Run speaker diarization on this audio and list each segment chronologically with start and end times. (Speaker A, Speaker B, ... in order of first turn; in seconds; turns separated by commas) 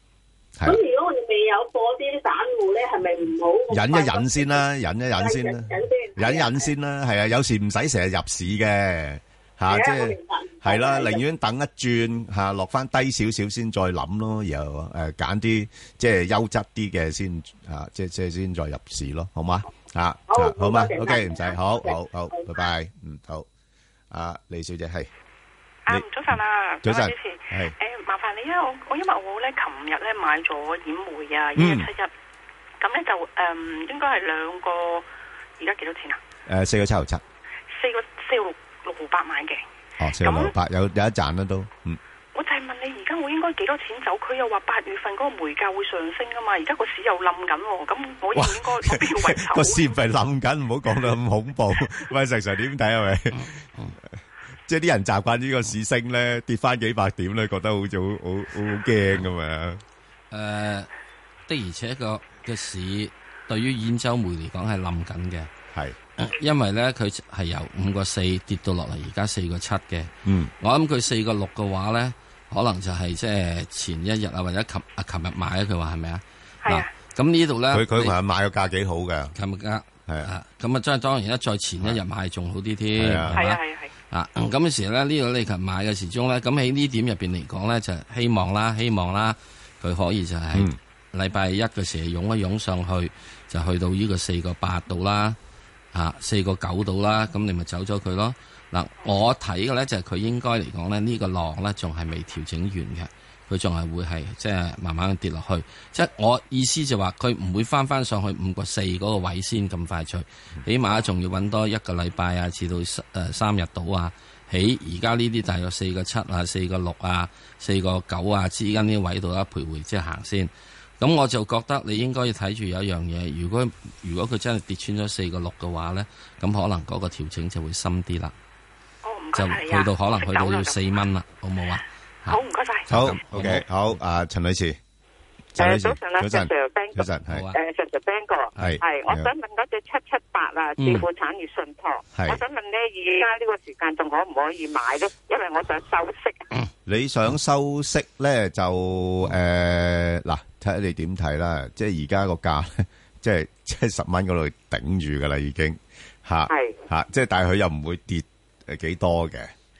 Speaker A: 0.6-4.6, Speaker B: 3.7-23.5, Speaker A: 5.1-6.7, Speaker A: 9.7-11.2, Speaker A: 20.3-22.0, Speaker B: 24.1-25.1, Speaker C: 25.9-32.1, Speaker B: 25.9-27.7, Speaker B: 31.6-31.9, Speaker C: 32.8-35.0, Speaker C: 35.6-36.2, Speaker B: 36.5-37.2, Speaker C: 37.7-39.6, Speaker B: 40.0-42.0, Speaker C: 40.2-40.5, Speaker C: 42.3-49.9, Speaker B: 48.3-53.5, Speaker B: 54.7-59.8, Speaker D: 60.3-60.9, Speaker D: 61.5-65.5, Speaker D: 66.2-78.2, Speaker B: 70.2-70.5, Speaker C: 76.6-76.9, Speaker B: 77.7-79.3, Speaker D: 79.3-95.4, Speaker B: 83.0-83.4, Speaker C: 83.3-83.9, Speaker D: 95.9-128.3, Speaker C: 129.0-131.0, Speaker D: 129.3-133.6, Speaker C: 132.3-133.0, Speaker B: 132.9-134.8, Speaker B: 135.5-137.4, Speaker E: 135.6-146.4, Speaker D: 137.3-137.6, Speaker B: 138.6-139.3, Speaker D: 140.8-141.1, Speaker B: 142.1-142.4, Speaker B: 146.8-159.5, Speaker E: 156.5-156.8